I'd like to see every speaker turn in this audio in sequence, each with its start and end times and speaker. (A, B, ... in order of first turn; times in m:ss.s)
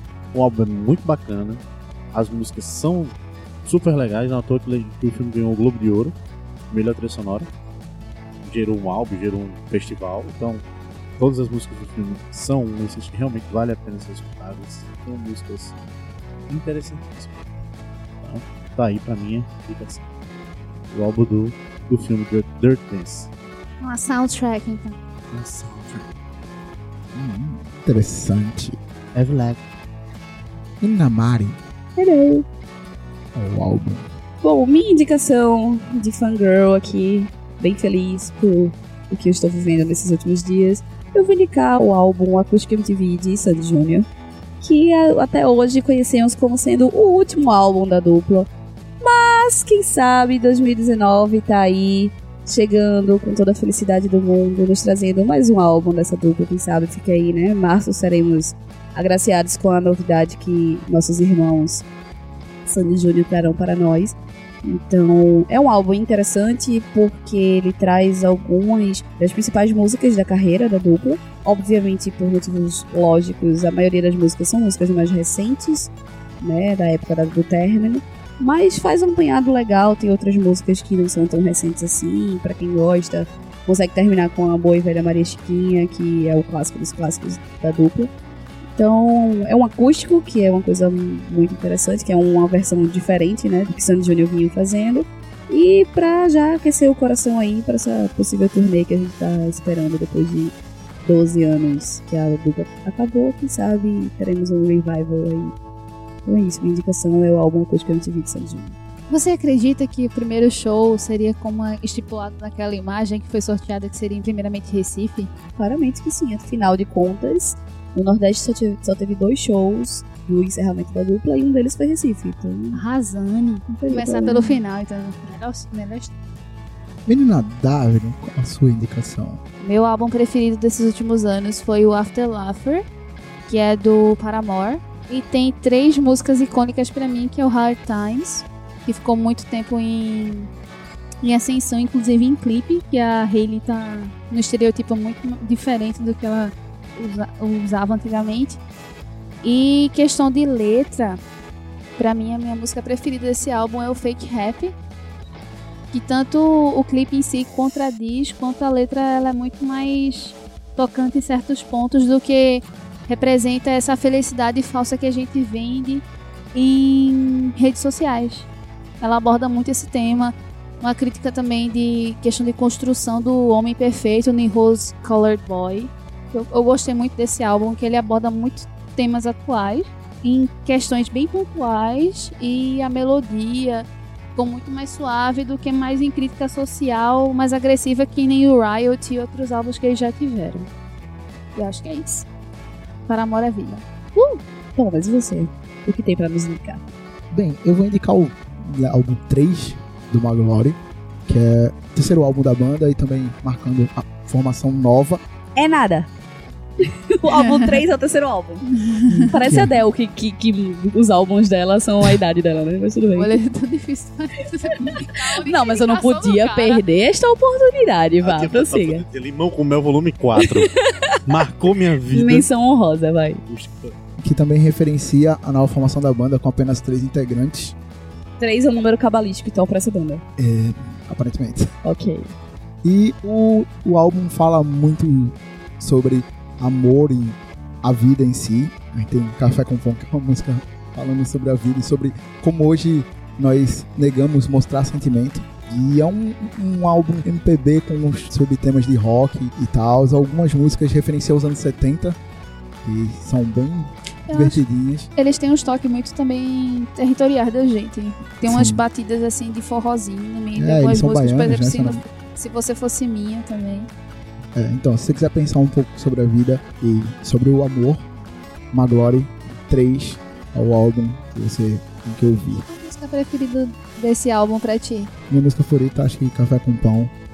0:00.3-0:06.2 A
0:06.7-0:07.5 A
0:08.4-0:10.6 A
0:11.2-0:15.8 A
0:16.5-0:17.4 A
0:18.2-0:20.0 A
0:20.9-0:23.3 A
0:23.8-0:25.0 B
0:25.3-0:26.1 A
0:27.1-0:28.8 C
0:29.1-0:29.6 A
0:30.8-0:31.6 C
0:32.0-0:32.5 D
0:33.4-0:34.1 C
0:34.4-0:44.1 D
0:44.6-1:01.9 D
1:02.7-1:28.1 D
1:28.8-1:45.5 D
1:46.2-1:48.8 D
1:49.1-1:55.3 B
1:55.6-2:02.8 D
2:02.7-2:06.1 B
2:03.7-2:04.6 D
2:07.1-2:09.4 C
2:09.6-2:12.8 B
2:13.5-2:20.5 B
2:21.2-2:28.6 B
2:29.4-2:31.2 B
2:32.0-2:34.8 B
2:35.9-2:48.5 B
2:49.0-3:10.7 B
3:11.6-3:12.3 B
3:13.1-3:14.4 B
3:14.8-3:16.8 D
3:17.3-3:25.2 C
3:25.6-3:26.1 D
3:26.8-3:28.7 D
3:27.3-3:27.8 B
3:28.7-3:29.3 B
3:29.1-3:29.7 C
3:29.2-3:33.4 D
3:33.2-3:36.8 B
3:34.8-3:39.0 D
3:38.2-3:40.7 A
3:40.4-3:41.2 D
3:41.3-3:42.5 A
3:42.1-3:43.4 D
3:43.5-3:44.0 A
3:44.2-3:47.8 C
3:48.4-3:50.2 D
3:50.4-3:51.7 C
3:51.8-3:52.3 D
3:52.8-4:12.2 C
4:12.8-4:15.1 C
4:14.3-4:14.6 B
4:15.2-4:23.9 B
4:18.5-4:18.8 C
4:20.6-4:22.0 C
4:24.6-4:28.1 C
4:28.7-4:32.6 C
4:32.7-4:35.1 B
4:35.3-4:37.1 C